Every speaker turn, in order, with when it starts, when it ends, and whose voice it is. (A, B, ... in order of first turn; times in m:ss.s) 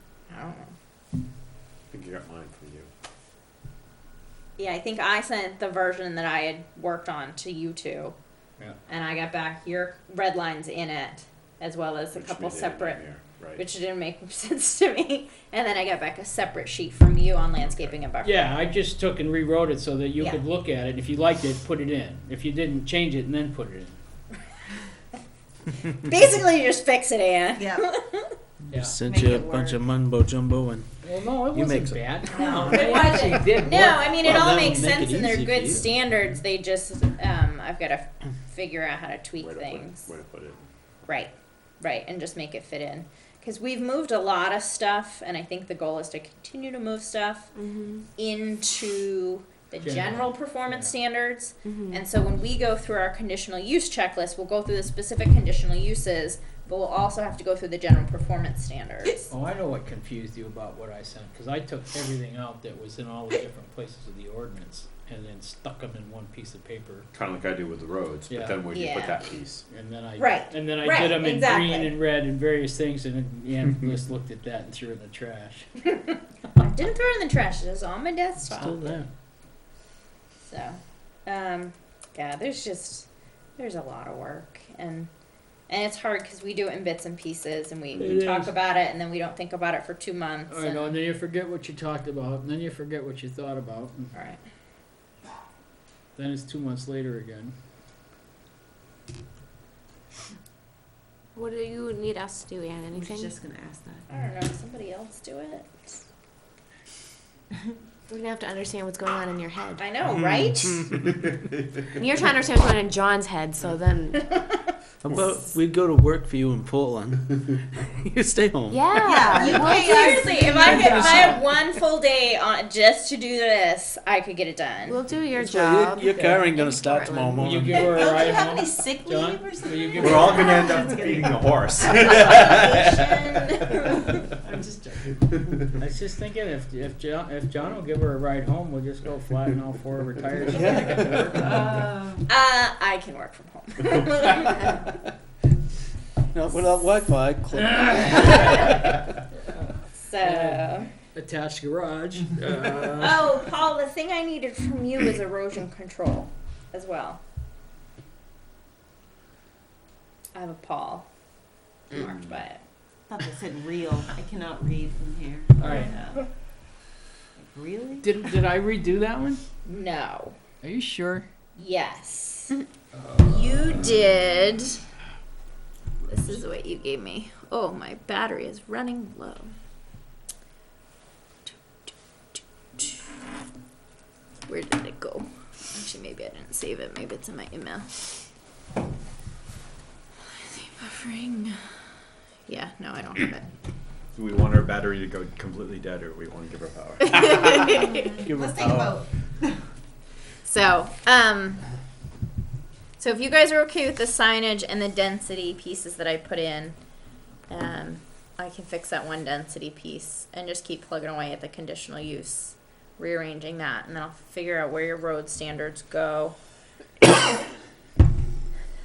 0:00.3-0:00.8 A
0:01.9-0:02.9 B
0:04.6-0:08.2 A
0:08.9-0:13.0 A
0:12.1-0:13.6 B
0:13.6-0:18.4 A
0:17.6-0:18.0 B
0:18.2-0:24.0 C
0:25.9-0:28.4 A
0:27.6-0:27.9 D
0:28.7-0:29.0 C
0:28.7-0:32.0 E
0:29.0-0:29.8 D
0:31.0-0:34.0 C
0:32.3-0:40.1 A
0:32.7-0:33.4 D
0:33.9-0:36.0 E
0:39.4-0:40.7 B
0:41.1-0:47.5 A
0:47.6-0:48.0 F
0:48.2-0:59.3 A
0:49.8-0:50.9 C
0:51.6-0:52.0 F
0:59.3-1:07.1 C
1:07.1-1:09.6 B
1:08.3-1:08.7 C
1:08.7-1:09.3 A
1:09.7-1:15.7 C
1:10.2-1:11.9 A
1:16.6-1:19.0 A
1:18.5-1:19.1 E
1:20.5-1:25.1 A
1:25.7-1:30.9 A
1:28.0-1:28.5 C
1:30.5-1:34.1 C
1:34.1-1:34.4 A
1:36.2-1:37.6 C
1:41.4-1:43.3 F
1:42.9-1:44.1 D
1:44.1-1:46.0 A
1:48.1-1:49.9 F
1:49.8-1:50.9 A
1:52.0-1:54.3 F
1:55.0-1:58.9 E
1:58.7-2:01.3 F
1:59.0-2:01.4 D
1:59.4-2:05.0 A
2:04.9-2:07.5 F
2:05.3-2:07.9 E
2:07.4-2:10.7 C
2:07.6-2:12.1 D
2:10.0-2:13.7 B
2:11.8-2:14.1 A
2:13.7-2:15.6 D
2:15.8-2:21.6 C
2:20.5-2:21.4 E
2:21.3-2:22.3 D
2:22.3-2:25.0 A
2:26.3-2:28.6 E
2:27.8-2:28.8 C
2:30.0-2:30.9 A
2:30.2-2:33.3 C
2:33.0-2:37.2 A
2:40.4-2:41.1 A
2:41.9-2:42.6 A
2:42.0-2:42.4 B
2:43.1-2:46.3 D
2:45.6-2:46.2 C
2:47.4-2:48.1 D
2:48.0-2:49.4 C
2:49.6-2:50.4 A
2:50.6-2:51.3 C
2:51.6-2:52.6 A
2:53.0-2:53.8 C
2:53.2-2:54.8 A
2:56.1-2:59.5 A
3:01.5-3:03.0 A
3:04.5-3:07.9 A
3:10.3-3:11.6 A
3:12.5-3:13.5 A
3:14.1-3:17.2 B
3:17.3-3:18.1 A
3:17.3-3:19.0 E
3:18.0-3:19.6 D
3:20.4-3:21.6 A
3:23.0-3:26.8 A
3:27.5-3:36.4 A